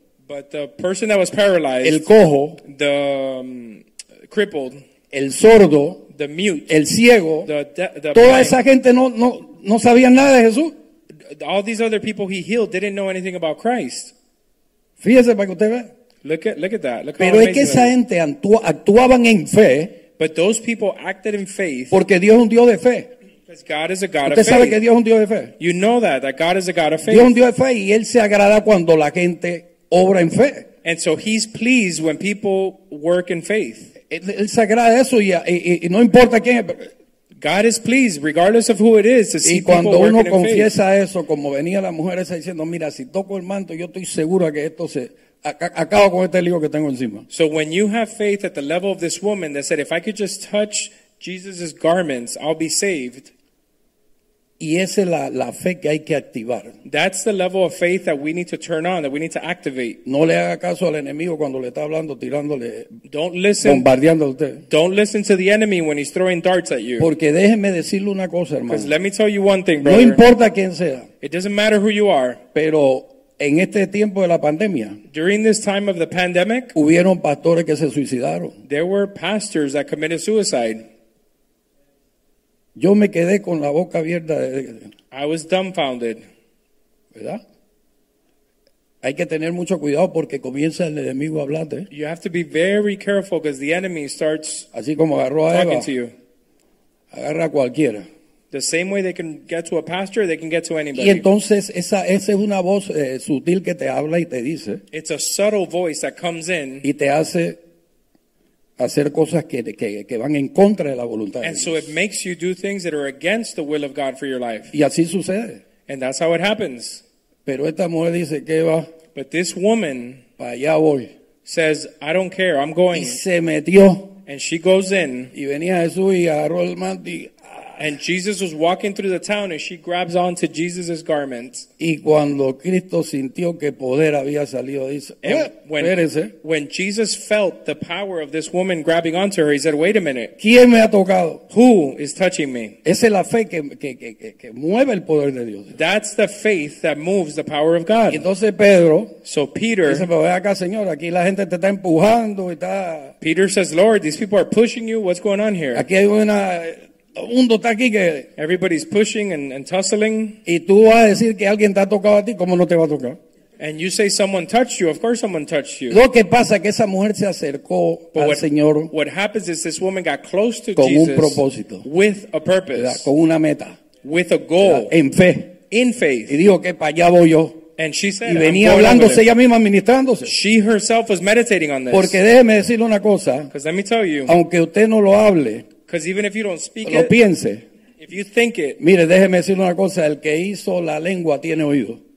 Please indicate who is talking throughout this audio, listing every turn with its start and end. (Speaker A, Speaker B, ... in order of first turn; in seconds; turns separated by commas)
Speaker A: 0.3-2.1, Speaker B: 1.8-2.6, Speaker A: 2.6-4.8, Speaker B: 5.1-6.0, Speaker A: 6.1-6.8, Speaker B: 6.7-7.5, Speaker A: 7.4-8.6, Speaker B: 8.1-10.7, Speaker A: 11.3-14.1, Speaker B: 15.0-15.9, Speaker A: 16.2-17.9, Speaker B: 17.2-20.0, Speaker A: 20.2-22.0, Speaker B: 21.9-23.1, Speaker A: 23.5-24.8, Speaker B: 24.2-25.5, Speaker A: 25.6-27.3, Speaker B: 27.1-30.7, Speaker A: 30.8-33.9, Speaker B: 34.1-36.9, Speaker A: 37.4-40.7, Speaker B: 39.4-47.2, Speaker A: 47.3-53.3, Speaker B: 54.6-56.8, Speaker A: 56.8-60.0, Speaker B: 60.0-62.9, Speaker A: 63.0-63.9, Speaker B: 63.6-64.6, Speaker A: 64.7-67.1, Speaker B: 67.0-68.9, Speaker A: 68.7-70.2, Speaker B: 69.8-71.1, Speaker A: 71.2-72.4, Speaker B: 72.5-75.0, Speaker A: 75.1-76.7, Speaker B: 76.7-78.6, Speaker A: 78.7-80.8, Speaker B: 82.8-84.9, Speaker A: 85.1-86.2, Speaker B: 87.1-87.4, Speaker B: 89.0-91.9, Speaker A: 91.9-94.7, Speaker B: 94.7-95.9, Speaker A: 95.5-96.1, Speaker B: 97.1-98.1, Speaker A: 98.5-101.2, Speaker B: 100.9-104.8, Speaker A: 104.9-106.8, Speaker B: 106.8-107.6, Speaker B: 108.8-111.9, Speaker A: 111.4-114.7, Speaker B: 114.7-115.6, Speaker A: 115.9-117.0, Speaker B: 117.5-118.9, Speaker A: 119.1-120.2, Speaker B: 120.4-121.1, Speaker A: 121.4-123.2, Speaker B: 122.9-124.2, Speaker A: 124.3-125.3, Speaker B: 125.3-127.8, Speaker A: 127.8-131.7, Speaker B: 131.8-136.3, Speaker A: 135.2-140.3, Speaker B: 140.4-141.4, Speaker A: 141.5-142.8, Speaker B: 142.8-145.8, Speaker A: 145.7-148.2, Speaker B: 148.1-149.2, Speaker A: 149.2-150.1, Speaker B: 149.8-153.1, Speaker A: 153.2-155.8, Speaker B: 155.7-158.3, Speaker A: 158.4-160.4, Speaker B: 160.4-163.2, Speaker A: 163.6-166.0, Speaker B: 165.9-168.9, Speaker A: 168.1-173.1, Speaker B: 170.8-171.8, Speaker B: 172.7-173.8, Speaker A: 174.0-174.9, Speaker B: 174.6-175.6, Speaker A: 175.7-176.4, Speaker B: 176.3-177.6, Speaker A: 177.8-179.2, Speaker B: 178.2-180.3, Speaker A: 180.2-182.2, Speaker B: 181.9-183.5, Speaker A: 183.5-184.3, Speaker B: 184.3-185.7, Speaker A: 185.9-187.1, Speaker B: 186.8-187.6, Speaker A: 188.0-188.8, Speaker B: 188.8-192.0